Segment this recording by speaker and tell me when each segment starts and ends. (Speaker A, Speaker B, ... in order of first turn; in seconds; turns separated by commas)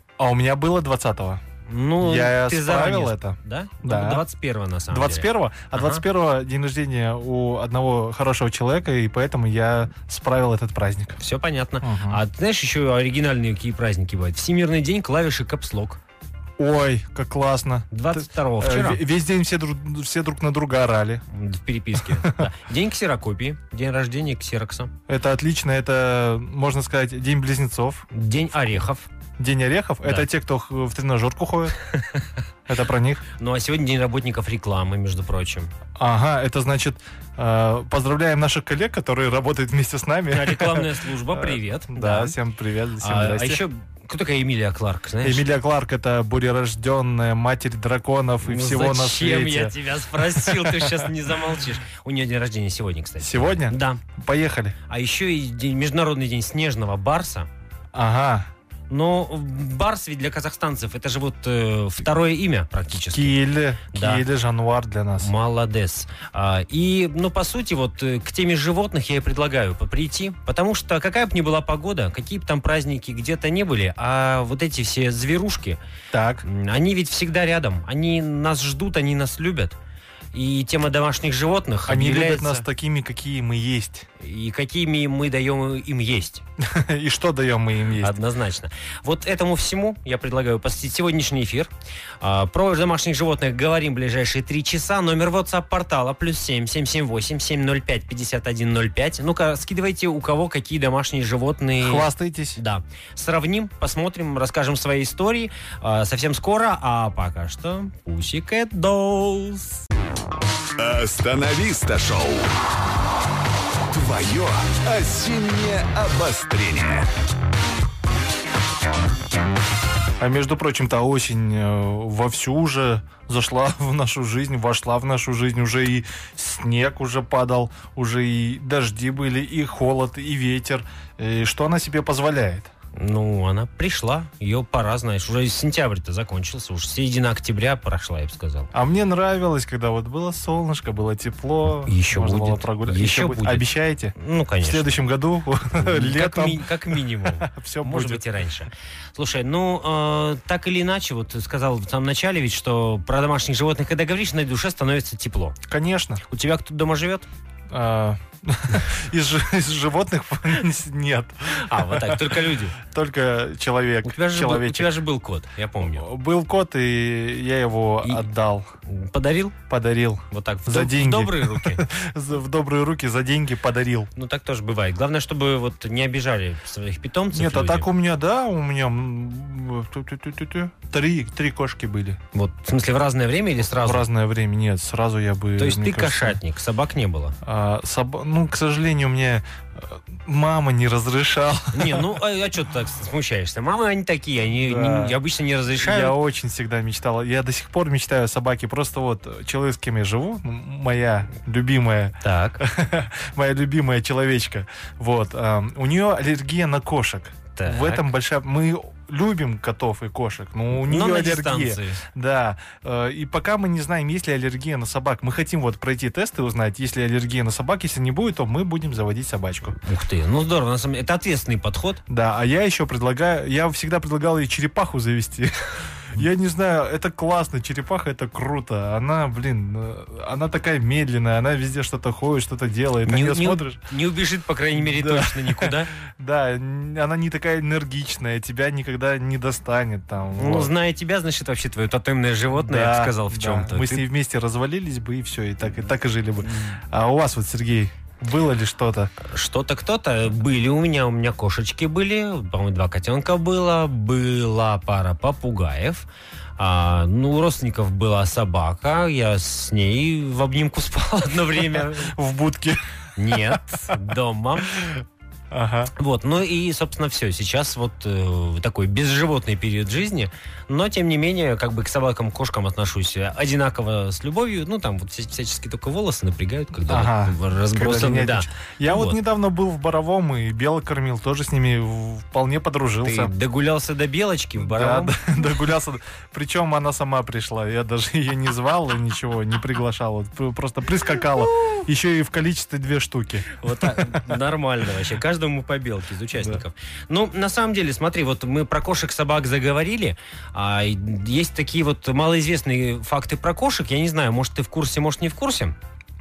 Speaker A: 0.2-1.4, Speaker B: 1.7-6.0, Speaker A: 2.0-4.2, Speaker A: 4.9-11.2, Speaker B: 11.2-16.0, Speaker A: 11.8-12.2, Speaker A: 16.6-21.2, Speaker B: 17.9-19.0, Speaker B: 21.3-24.9, Speaker A: 22.0-22.4, Speaker A: 25.1-28.1, Speaker B: 28.1-29.1, Speaker A: 29.4-31.7, Speaker A: 32.7-33.2, Speaker B: 33.4-35.7, Speaker A: 36.0-43.6, Speaker B: 40.3-42.4, Speaker B: 43.0-45.4, Speaker A: 45.2-51.1, Speaker B: 48.4-54.0, Speaker A: 53.2-54.7, Speaker B: 54.9-57.5, Speaker A: 57.9-58.5, Speaker B: 58.9-63.4, Speaker A: 63.0-65.3, Speaker B: 63.9-64.2, Speaker B: 65.2-75.8, Speaker A: 76.1-76.4, Speaker B: 76.4-79.8, Speaker B: 80.3-82.7, Speaker A: 81.9-84.1, Speaker B: 84.2-86.4, Speaker A: 86.6-88.1, Speaker B: 88.0-109.8, Speaker A: 101.8-102.6, Speaker C: 110.8-112.5, Speaker C: 113.9-117.1, Speaker A: 120.2-132.7, Speaker B: 132.9-138.7, Speaker A: 138.7-148.2, Speaker B: 141.8-144.9, Speaker B: 145.8-155.6, Speaker A: 155.7-156.2, Speaker B: 156.3-157.3, Speaker A: 157.7-164.9, Speaker B: 161.5-162.8, Speaker B: 164.0-166.1, Speaker A: 165.8-168.7, Speaker B: 168.9-169.5, Speaker A: 169.7-174.1, Speaker B: 170.3-171.8, Speaker B: 174.2-177.9, Speaker A: 177.3-182.2, Speaker B: 182.3-184.1, Speaker A: 183.7-186.4, Speaker B: 185.6-187.3, Speaker A: 187.4-192.1, Speaker B: 191.7-196.2, Speaker A: 194.6-195.2, Speaker A: 195.8-219.8, Speaker B: 202.2-202.6, Speaker B: 207.6-208.0, Speaker B: 210.7-212.0, Speaker B: 219.8-222.0, Speaker A: 222.1-233.8, Speaker B: 233.1-235.9, Speaker A: 234.8-240.7, Speaker B: 240.4-244.0, Speaker A: 242.5-249.1, Speaker B: 246.5-246.8, Speaker B: 249.2-256.1, Speaker B: 256.6-262.1, Speaker A: 262.0-264.0, Speaker B: 263.2-264.8, Speaker A: 264.7-265.9, Speaker B: 265.9-279.2, Speaker A: 276.9-283.3, Speaker B: 283.0-285.1, Speaker A: 284.6-294.2, Speaker B: 293.6-305.8, Speaker A: 296.3-296.6